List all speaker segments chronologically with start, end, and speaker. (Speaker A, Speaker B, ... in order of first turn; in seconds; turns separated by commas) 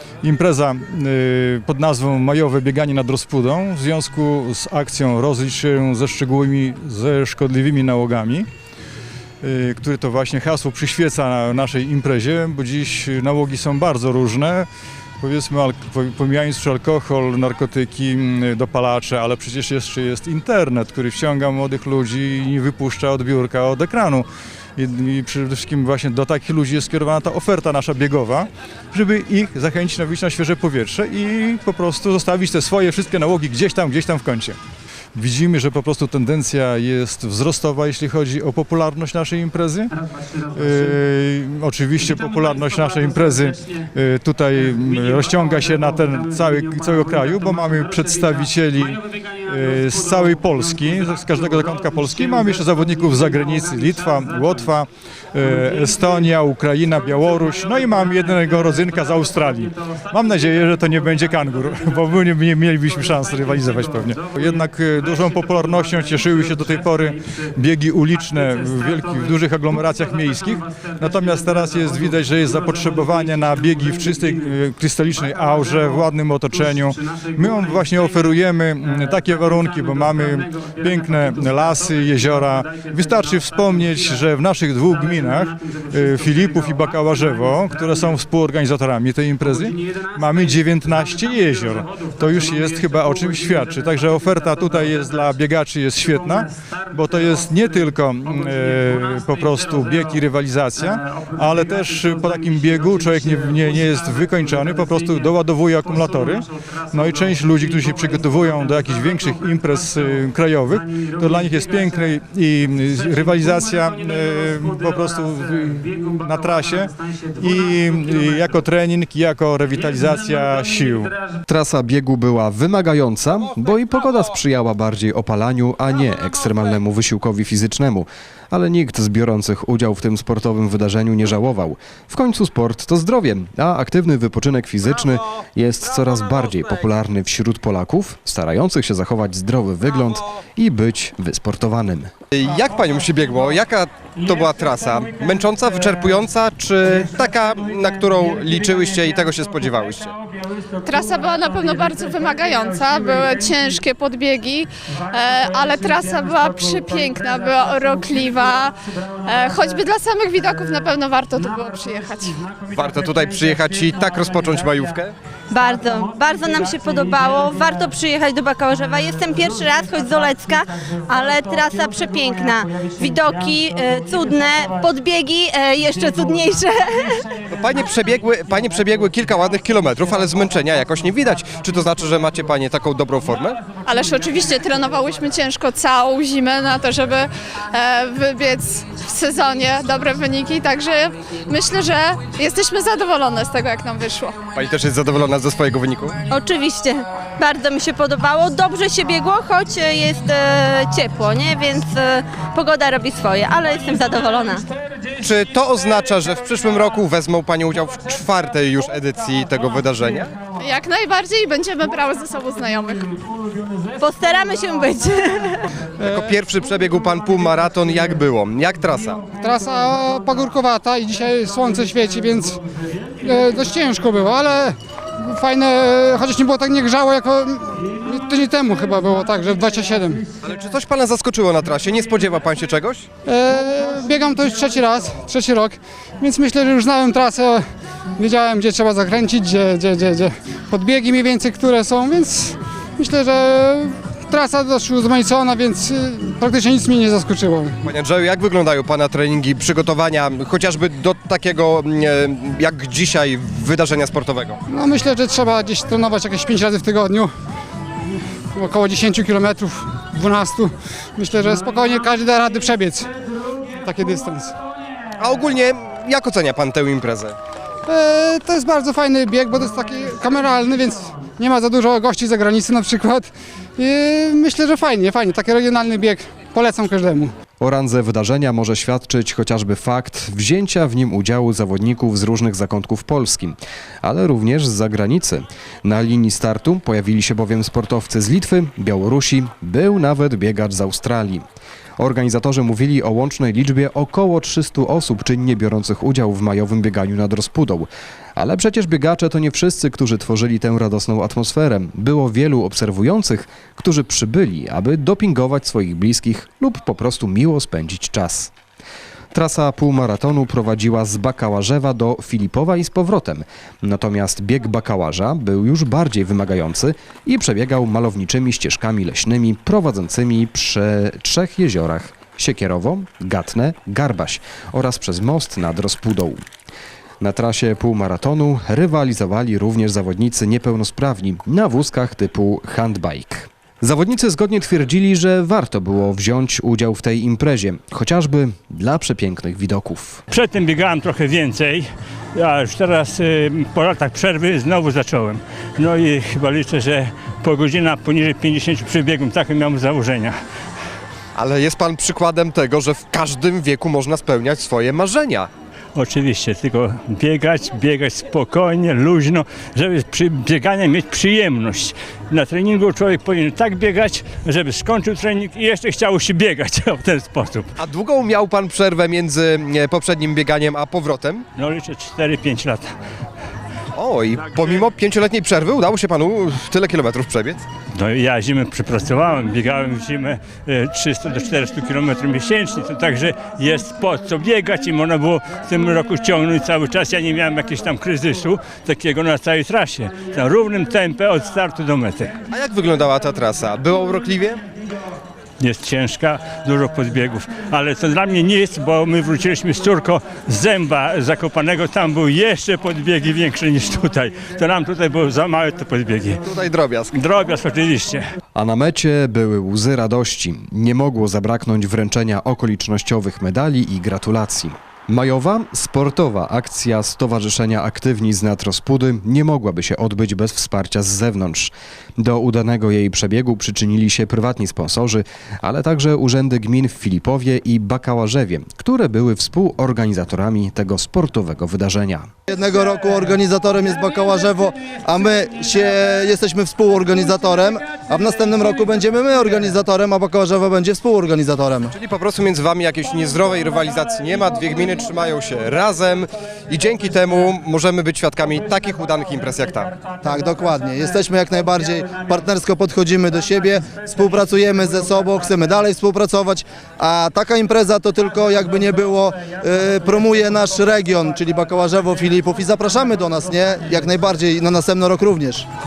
Speaker A: 0.2-8.5, Speaker A: 9.4-14.7, Speaker A: 15.2-24.3, Speaker A: 24.8-34.6, Speaker A: 35.1-39.9, Speaker A: 40.5-121.1, Speaker B: 121.5-142.1, Speaker C: 142.3-150.1, Speaker D: 150.8-162.5, Speaker C: 162.7-165.1, Speaker E: 165.5-177.3, Speaker C: 177.5-183.6, Speaker D: 183.8-194.4, Speaker C: 194.6-196.2, Speaker E: 196.3-204.6, Speaker C: 205.2-210.3, Speaker D: 210.6-213.2, Speaker E: 214.0-215.6, Speaker C: 216.0-219.2, Speaker F: 216.0-216.3, Speaker F: 219.4-222.6, Speaker F: 223.2-230.2, Speaker C: 230.4-233.1, Speaker F: 233.3-237.6, Speaker F: 238.2-247.8, Speaker C: 247.8-254.6, Speaker F: 254.7-257.3, Speaker F: 258.5-263.1, Speaker F: 263.8-264.5, Speaker C: 265.2-267.4, Speaker F: 267.9-277.3, Speaker B: 277.6-291.4, Speaker B: 292.0-308.5, Speaker B: 309.3-326.4, Speaker B: 327.2-340.2, Speaker G: 340.3-350.3, Speaker C: 351.4-355.5, Speaker G: 355.9-367.7, Speaker C: 367.8-371.4, Speaker G: 371.6-372.9, Speaker C: 373.9-377.6, Speaker G: 377.9-392.3, Speaker C: 392.5-394.6, Speaker G: 395.6-406.4, Speaker C: 406.4-407.2, Speaker G: 407.1-408.2, Speaker B: 408.6-432.3, Speaker H: 432.5-441.9, Speaker C: 441.9-449.9, Speaker H: 450.2-465.7